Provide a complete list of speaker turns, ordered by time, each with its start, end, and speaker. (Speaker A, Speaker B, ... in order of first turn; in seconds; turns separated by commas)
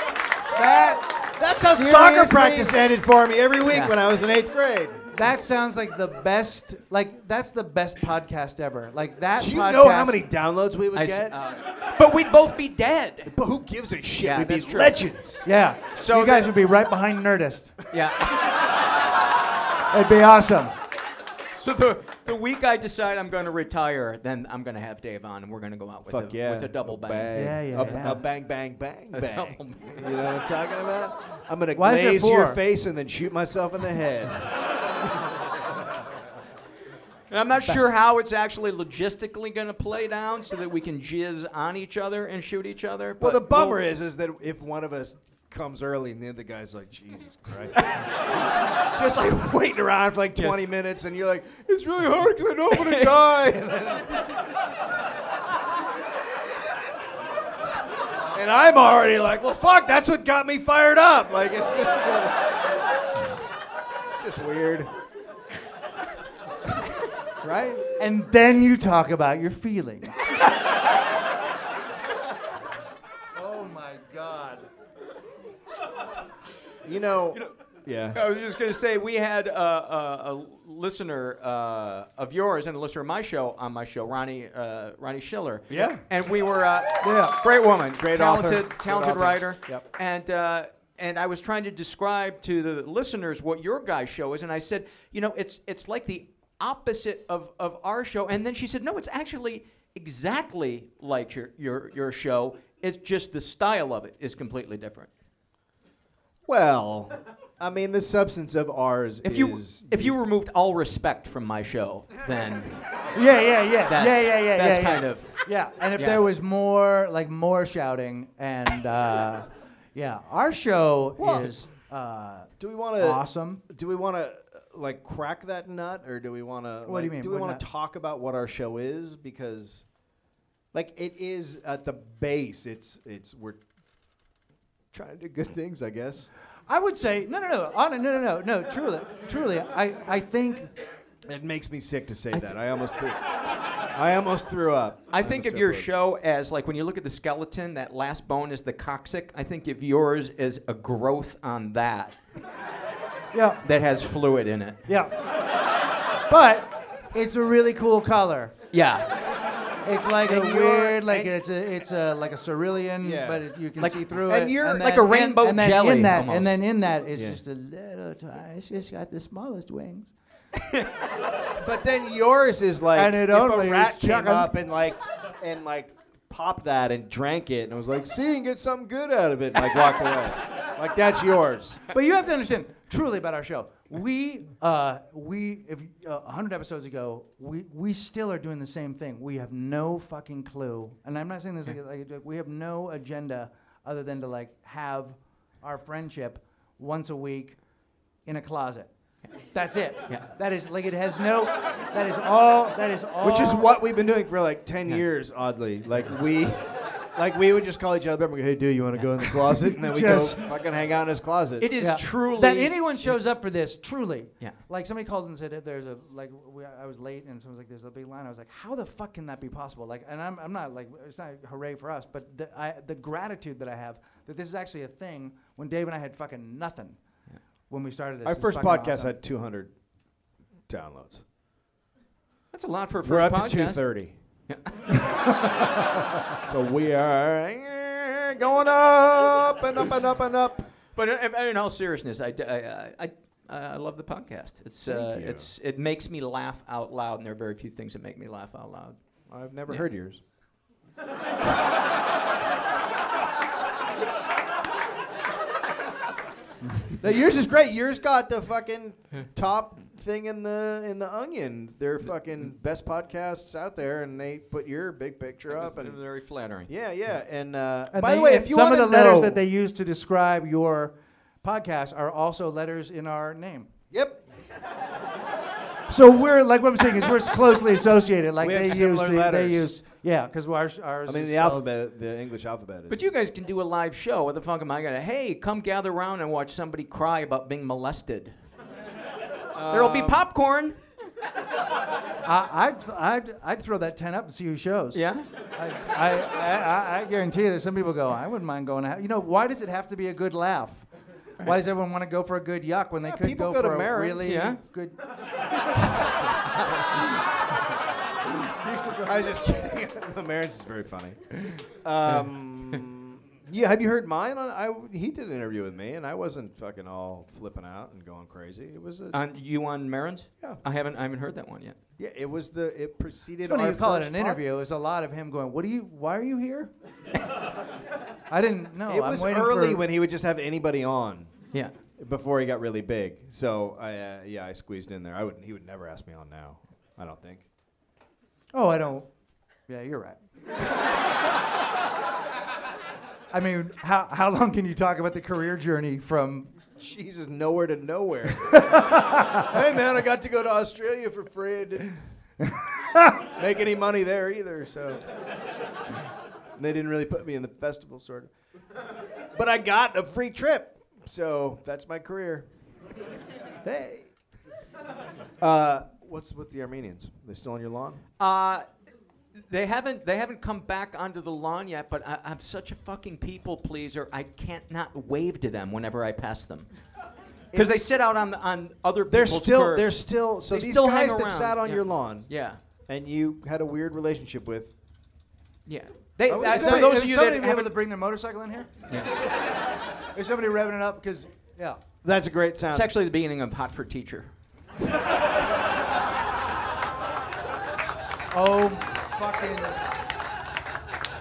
Speaker A: 0.6-2.8, Speaker B: 1.4-5.0, Speaker C: 3.7-4.0, Speaker A: 5.1-10.2, Speaker B: 9.4-11.3, Speaker C: 10.9-13.3, Speaker B: 13.3-15.4, Speaker C: 14.2-15.0, Speaker A: 15.4-17.7, Speaker C: 16.0-16.5, Speaker C: 17.9-18.5, Speaker A: 19.9-20.7, Speaker C: 21.5-28.2, Speaker B: 26.1-34.5, Speaker A: 27.3-28.2, Speaker C: 29.1-30.0, Speaker A: 31.8-32.6, Speaker C: 37.3-43.8, Speaker B: 43.2-47.8, Speaker B: 48.9-54.2, Speaker C: 52.7-53.2, Speaker B: 58.3-62.4, Speaker B: 63.1-63.5, Speaker B: 64.0-64.9, Speaker B: 67.4-67.8, Speaker A: 68.0-70.2, Speaker A: 73.4-74.7, Speaker B: 76.8-78.2, Speaker C: 78.1-105.1, Speaker B: 85.7-86.0, Speaker A: 87.0-87.4, Speaker B: 88.0-89.8, Speaker B: 106.5-110.2, Speaker C: 109.2-112.8, Speaker A: 113.1-123.6, Speaker C: 113.9-115.3, Speaker C: 116.0-116.2, Speaker B: 121.2-121.5, Speaker B: 122.6-129.8, Speaker A: 126.9-127.7, Speaker B: 130.7-133.6, Speaker B: 134.9-136.3, Speaker A: 136.7-140.7, Speaker B: 141.3-143.2, Speaker B: 143.9-145.9, Speaker C: 145.1-152.2, Speaker A: 153.3-153.6, Speaker C: 153.6-154.8, Speaker A: 154.9-155.2, Speaker A: 156.3-158.6, Speaker C: 158.7-159.1, Speaker A: 159.8-170.1, Speaker B: 160.2-161.4, Speaker B: 163.0-163.5, Speaker C: 163.8-166.5, Speaker B: 164.3-164.9, Speaker B: 167.2-167.4, Speaker C: 170.6-170.9, Speaker B: 171.6-181.8, Speaker A: 172.9-174.5, Speaker A: 181.9-197.6, Speaker A: 198.3-198.9, Speaker A: 199.5-203.7, Speaker B: 203.2-206.6, Speaker B: 207.2-211.7, Speaker C: 209.0-209.5, Speaker A: 209.8-210.5, Speaker C: 211.6-212.8, Speaker A: 211.8-227.0, Speaker A: 227.7-229.2, Speaker B: 228.2-229.7, Speaker B: 230.7-231.2, Speaker C: 232.5-233.9, Speaker B: 233.0-234.1, Speaker C: 234.5-235.0, Speaker B: 236.4-240.7, Speaker C: 241.0-249.0, Speaker B: 244.9-245.5, Speaker B: 249.3-250.2, Speaker B: 257.0-266.0, Speaker C: 265.5-266.7, Speaker B: 266.7-269.4, Speaker A: 267.9-273.7, Speaker B: 273.9-274.2, Speaker A: 275.9-281.6, Speaker B: 278.4-279.7, Speaker B: 281.1-283.1, Speaker C: 282.9-288.4, Speaker B: 289.5-290.2, Speaker C: 289.7-290.8, Speaker A: 292.2-295.0, Speaker C: 294.9-295.3, Speaker A: 295.6-300.9, Speaker A: 301.4-305.0, Speaker B: 303.1-304.4, Speaker C: 304.2-304.6, Speaker A: 308.6-309.1, Speaker B: 309.0-319.2, Speaker C: 319.1-321.8, Speaker B: 322.0-324.4, Speaker A: 323.4-326.7, Speaker A: 328.3-329.8, Speaker B: 328.9-331.3, Speaker B: 332.0-337.5, Speaker A: 338.5-339.1, Speaker A: 339.7-340.2, Speaker A: 343.3-346.5, Speaker B: 346.8-352.0, Speaker A: 348.5-349.4, Speaker B: 353.3-355.0, Speaker B: 356.6-358.3, Speaker B: 359.4-362.5, Speaker B: 363.6-364.1, Speaker B: 365.4-368.0, Speaker C: 368.2-368.7, Speaker C: 369.4-376.7, Speaker B: 377.5-377.8, Speaker C: 377.5-382.6, Speaker B: 379.1-382.3, Speaker B: 382.9-384.7, Speaker C: 385.7-387.7, Speaker A: 386.3-388.7, Speaker B: 386.3-386.9, Speaker A: 390.1-391.8, Speaker B: 392.0-392.9, Speaker C: 392.7-394.3, Speaker A: 398.3-399.8